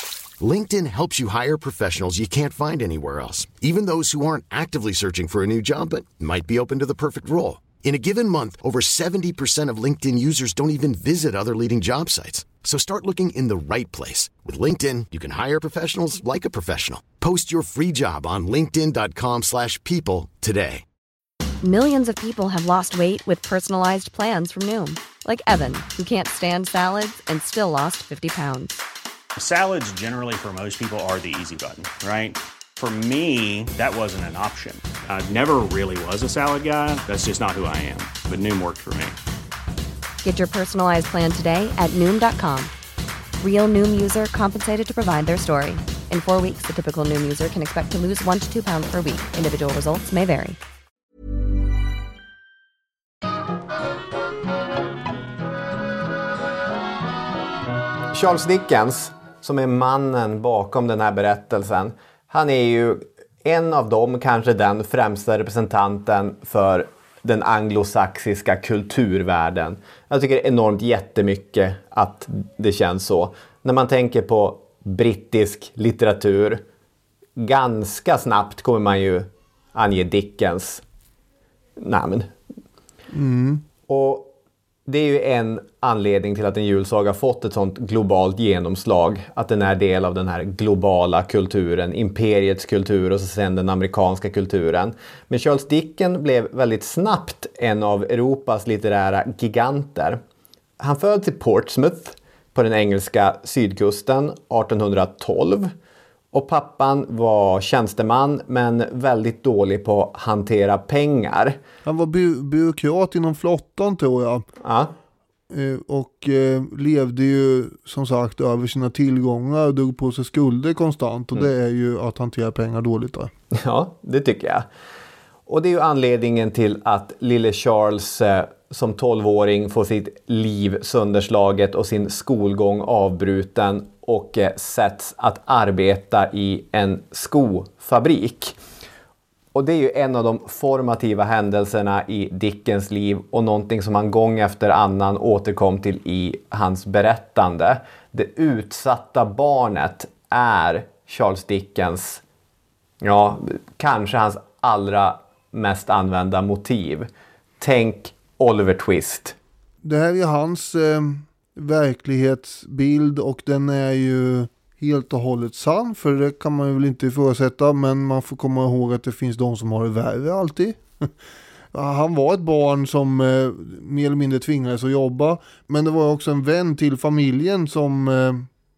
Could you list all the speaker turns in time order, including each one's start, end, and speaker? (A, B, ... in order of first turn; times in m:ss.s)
0:00.4-0:20.8 A
0:21.6-0:28.8 B
0:29.4-0:39.2 C
0:40.2-0:42.7 B
0:43.4-0:50.6 B
0:58.1-1:16.6 D
1:17.4-1:20.8 D
1:21.8-1:22.3 D
1:23.1-1:23.6 E
1:23.9-1:24.3 D
1:24.9-1:40.2 D
1:40.8-1:45.7 D
1:46.3-1:51.6 D
1:51.8-1:54.4 E
1:54.6-1:54.9 D
1:55.5-2:03.3 E
2:03.5-2:04.7 D
2:05.5-2:18.6 D
2:19.5-2:32.2 D
2:33.0-2:37.1 D
2:37.6-2:39.4 D
2:39.8-2:51.1 E
2:51.7-2:58.5 E